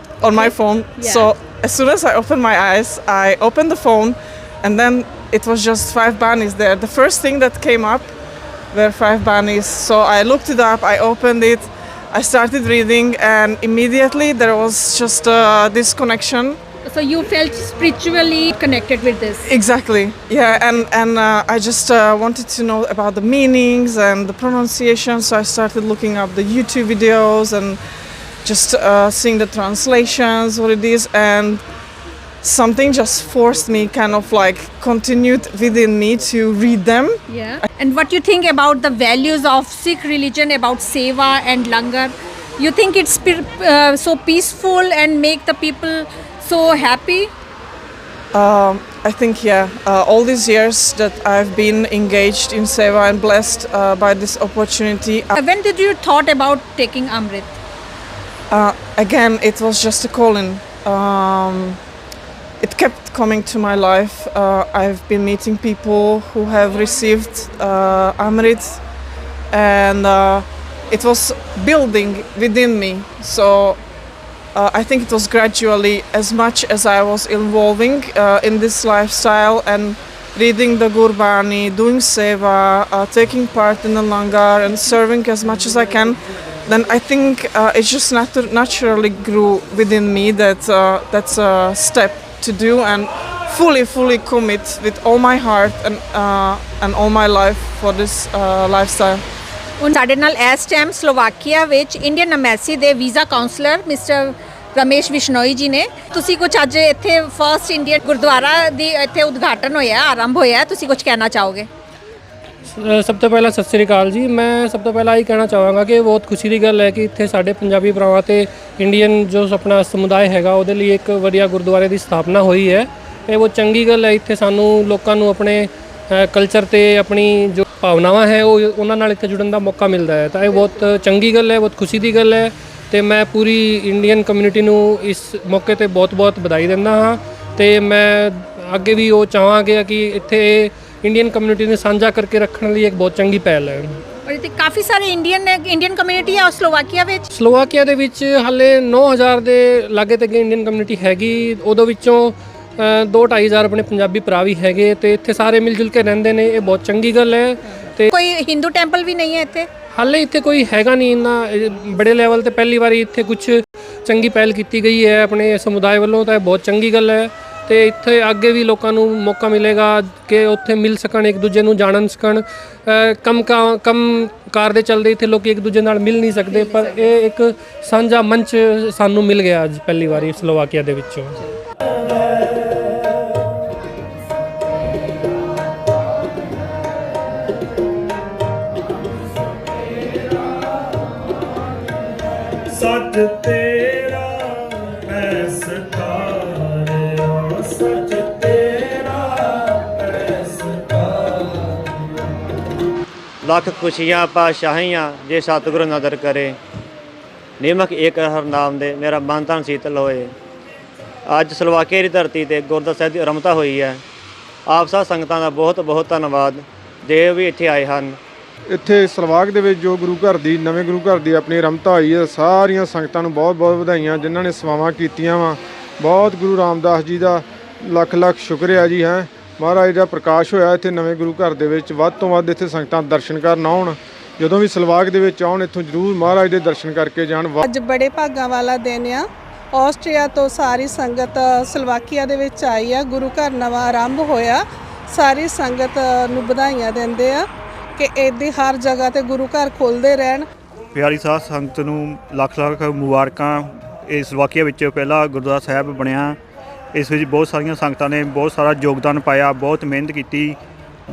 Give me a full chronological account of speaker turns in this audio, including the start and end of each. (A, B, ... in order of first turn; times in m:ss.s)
0:00.2-0:08.1 A
0:00.4-0:01.3 B
0:08.7-0:16.6 A
0:16.8-0:19.5 B
0:19.4-0:27.8 A
0:28.4-0:31.6 A
0:32.4-0:37.2 A
0:37.3-0:47.3 B
0:48.3-0:55.3 A
0:55.3-0:57.6 B
0:58.5-1:01.8 A
1:02.6-1:08.8 A
1:09.5-1:13.8 A
1:14.5-1:39.2 A
1:39.8-1:51.7 B
1:52.7-2:24.0 C
2:24.2-2:27.2 B
2:27.3-2:38.1 C
2:37.7-2:39.7 B
2:39.9-3:01.4 C
2:56.5-2:57.1 B
3:12.7-3:14.1 D
3:14.9-3:17.0 D
3:17.6-3:18.7 D
3:20.4-3:21.0 D
3:23.5-3:26.5 E
3:27.6-3:30.3 E
3:31.3-3:34.0 E
3:34.7-3:38.2 E
3:38.7-3:57.6 F
3:57.6-4:10.5 G
4:10.9-4:16.4 H
4:16.9-4:20.6 H